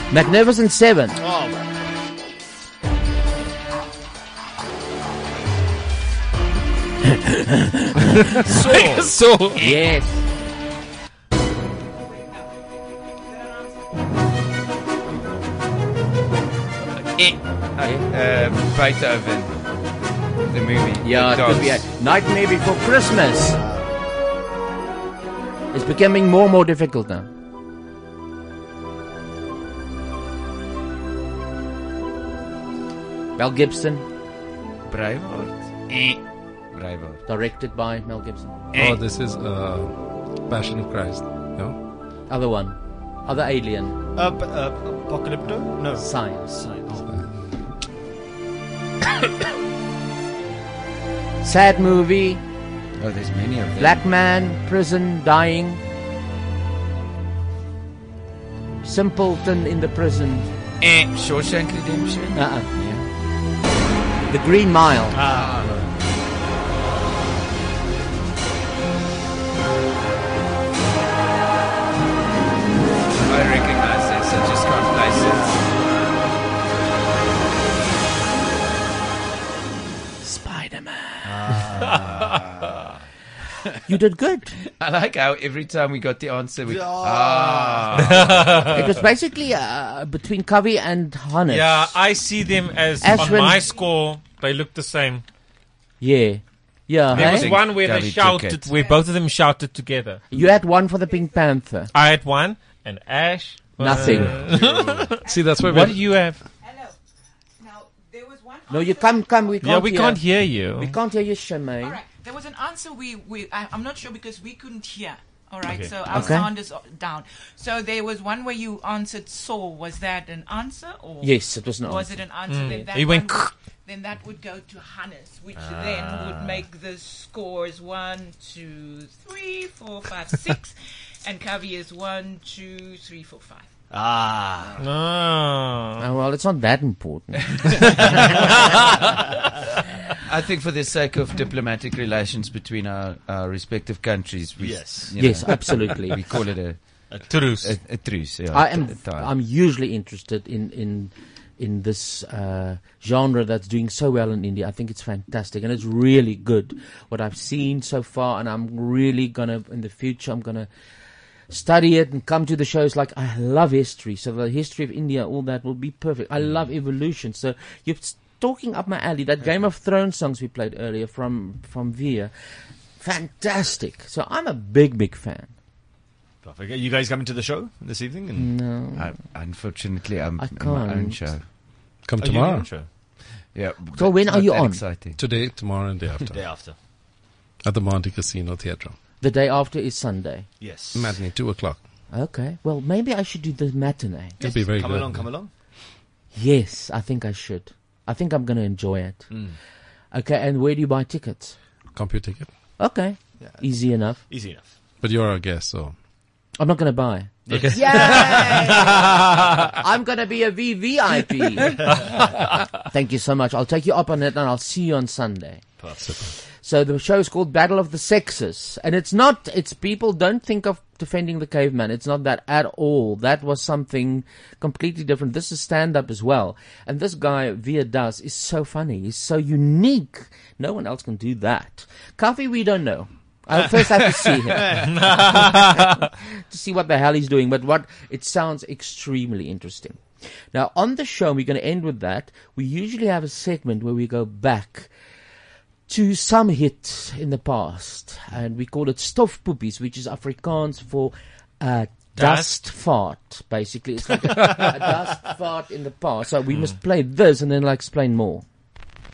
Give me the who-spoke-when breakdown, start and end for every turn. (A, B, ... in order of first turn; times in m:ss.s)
0:00.1-0:01.2 A
0:01.2-0:01.6 B
0:08.3-0:09.6 C
0:08.5-0:09.3 D
0:09.6-0:10.2 A
0:17.0-0:19.8 D
0:17.8-0:18.0 A
0:20.4-0:21.9 D
0:21.0-0:23.6 A
0:23.5-0:23.9 B
0:25.7-0:27.3 A
0:33.4-0:34.0 A
0:34.9-0:37.2 D
0:37.2-0:38.5 A
0:38.7-0:39.0 D
0:38.7-0:41.8 E
0:42.3-0:44.0 A
0:44.1-0:47.1 B
0:45.9-0:47.0 A
0:51.4-0:52.4 A
0:53.0-0:54.0 D
0:53.8-0:55.8 A
0:58.8-1:00.5 A
1:00.8-1:03.0 D
1:02.3-1:02.7 A
1:04.3-1:05.2 A
1:05.1-1:05.7 B
1:05.2-1:05.8 D
1:13.2-1:15.7 D
1:20.2-1:21.4 A
1:21.2-1:22.7 B
1:23.9-1:24.6 A
1:24.8-1:28.2 D
1:26.6-1:28.6 B
1:28.0-1:28.7 C
1:28.7-1:31.9 A
1:31.5-1:35.2 C
1:33.0-1:33.7 A
1:36.0-1:37.6 A
1:37.1-1:38.7 D
1:37.1-1:40.2 C
1:38.7-1:39.0 F
1:40.3-1:41.9 A
1:41.9-1:46.5 C
1:43.8-1:44.3 A
1:44.4-1:44.8 B
1:45.2-1:45.8 F
1:45.2-1:46.1 E
1:46.6-1:46.9 F
1:47.6-1:49.4 F
1:48.7-1:52.0 A
1:49.6-1:50.9 C
1:51.8-2:13.7 F
1:55.6-1:56.1 B
1:56.1-1:56.5 A
2:01.2-2:02.1 A
2:02.5-2:03.5 C
2:05.6-2:06.6 B
2:13.9-2:14.8 B
2:14.8-2:16.0 C
2:16.0-2:18.0 A
2:20.2-2:29.3 D
2:24.6-2:25.4 B
2:25.1-2:26.2 A
2:27.1-2:27.4 B
2:27.3-2:27.8 C
2:28.5-2:40.7 A
2:41.5-2:52.3 A
2:53.0-2:55.6 A
2:56.4-2:58.6 B
2:58.3-2:59.2 A
2:58.9-3:01.5 D
3:00.4-3:01.3 A
3:02.0-3:02.8 E
3:02.2-3:03.0 B
3:03.1-3:05.2 D
3:03.9-3:04.8 A
3:05.2-3:06.6 E
3:06.3-3:06.8 B
3:07.6-3:09.0 E
3:09.2-3:10.5 A
3:10.6-3:11.2 B
3:10.9-3:11.9 E
3:12.1-3:14.4 A
3:14.4-3:15.4 E
3:14.4-3:15.5 B
3:16.3-3:19.6 A
3:19.3-3:19.6 B
3:20.1-3:21.6 A
3:21.9-3:22.8 E
3:22.8-3:24.2 A
3:23.4-3:24.8 B
3:25.0-3:26.0 E
3:26.6-3:28.7 A
3:27.5-3:28.7 B
3:27.5-3:28.6 E
3:29.8-3:32.0 A
3:32.8-3:55.8 A
3:35.8-3:36.2 B
3:54.6-3:54.9 B
3:55.0-3:55.9 C
3:56.5-4:04.9 A
4:05.9-4:18.4 A
4:12.2-4:12.6 C